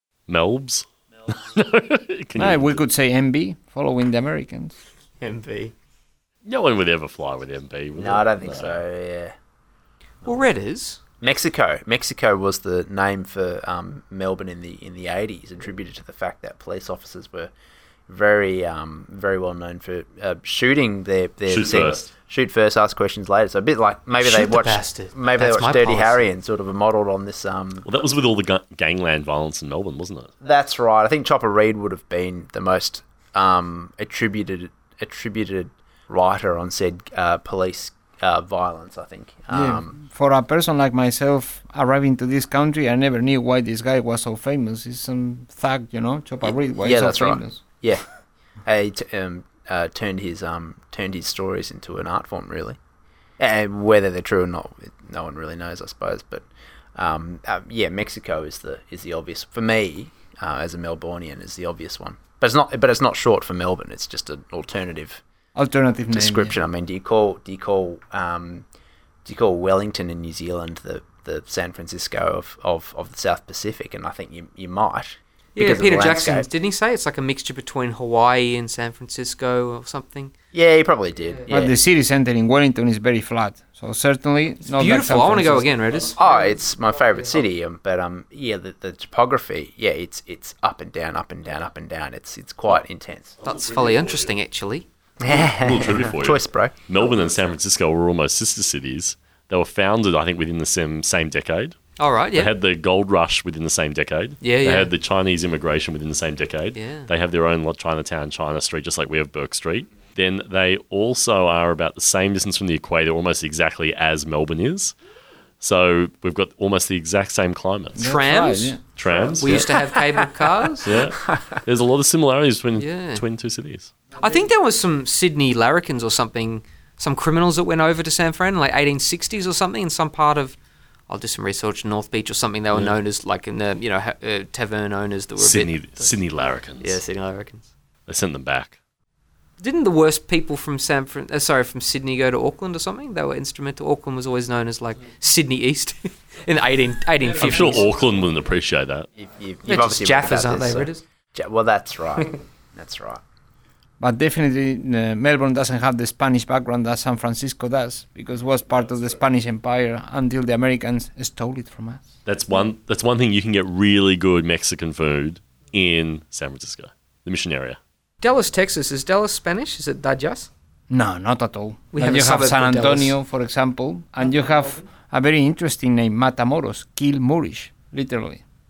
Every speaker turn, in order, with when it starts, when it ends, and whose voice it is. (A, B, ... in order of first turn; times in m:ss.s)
0:00.3-0:02.8 A
0:02.4-0:04.7 B
0:05.2-0:05.7 C
0:06.4-0:08.8 A
0:08.0-0:09.3 D
0:10.2-0:11.0 C
0:11.2-0:17.5 D
0:18.1-0:27.8 D
0:21.5-0:22.1 A
0:24.2-0:26.2 C
0:27.8-0:30.3 A
0:30.4-0:39.9 D
0:39.5-0:47.6 B
0:46.4-0:48.0 D
0:48.6-0:52.8 D
0:53.4-0:56.4 D
0:57.0-1:05.2 D
1:05.6-1:06.6 B
1:06.1-1:08.6 D
1:09.2-1:16.5 D
1:15.6-1:20.3 C
1:20.5-1:21.8 D
1:21.5-1:25.7 B
1:24.6-1:26.5 C
1:26.1-1:33.3 D
1:33.4-1:34.8 C
1:33.4-1:34.2 A
1:35.2-1:36.7 D
1:35.3-1:41.8 A
1:42.0-1:42.5 C
1:42.3-1:54.9 A
1:44.4-1:44.9 C
1:46.7-1:47.1 C
1:55.6-1:58.0 A
1:58.0-1:58.8 B
1:58.0-1:58.8 C
1:59.0-1:59.7 A
1:59.4-2:00.9 C
2:00.8-2:03.9 A
2:02.8-2:03.2 C
2:04.2-2:10.6 C
2:11.1-2:16.2 C
2:12.7-2:13.0 A
2:15.4-2:17.0 A
2:16.8-2:17.7 C
2:18.1-2:18.8 A
2:19.6-2:27.9 C
2:27.3-2:29.1 A
2:29.2-2:33.2 D
2:29.6-2:31.0 C
2:34.0-2:42.1 B
2:42.2-2:47.8 A
2:48.2-2:50.5 C
2:50.9-2:58.4 B
2:51.9-2:53.2 C
2:54.2-2:54.8 C